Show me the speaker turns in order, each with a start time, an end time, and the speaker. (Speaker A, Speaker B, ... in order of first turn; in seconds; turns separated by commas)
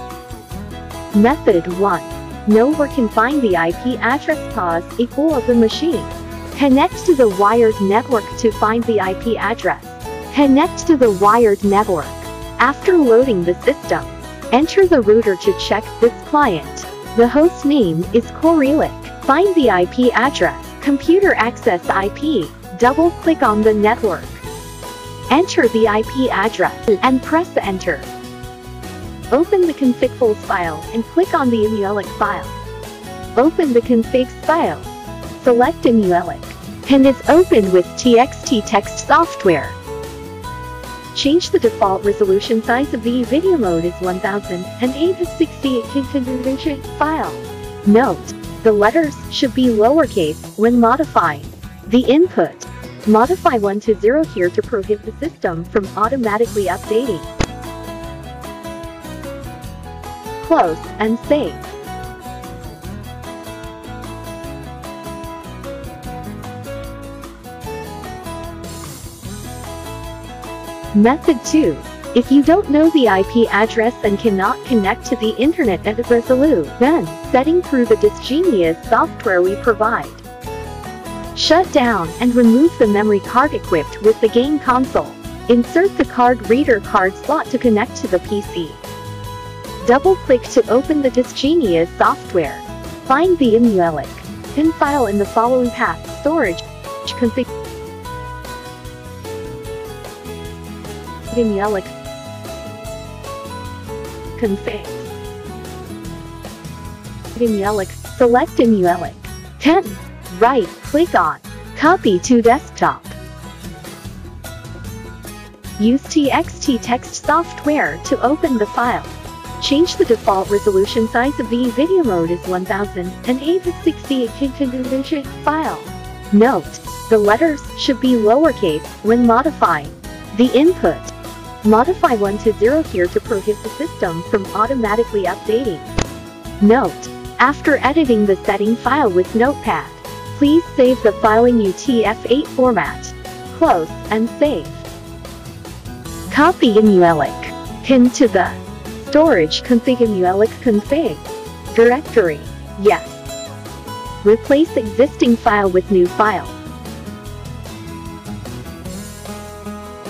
Speaker A: 1.1-24.4, Speaker A: 25.3-28.1, Speaker A: 29.3-32.6, Speaker A: 33.4-39.8, Speaker A: 41.1-57.3, Speaker A: 60.4-61.7, Speaker A: 70.9-80.2, Speaker A: 81.3-88.8, Speaker A: 89.8-97.5, Speaker A: 101.3-101.9, Speaker A: 104.4-105.1, Speaker A: 107.3-113.2, Speaker A: 115.8-135.9, Speaker A: 136.6-144.9, Speaker A: 146.3-153.2, Speaker A: 154.2-156.6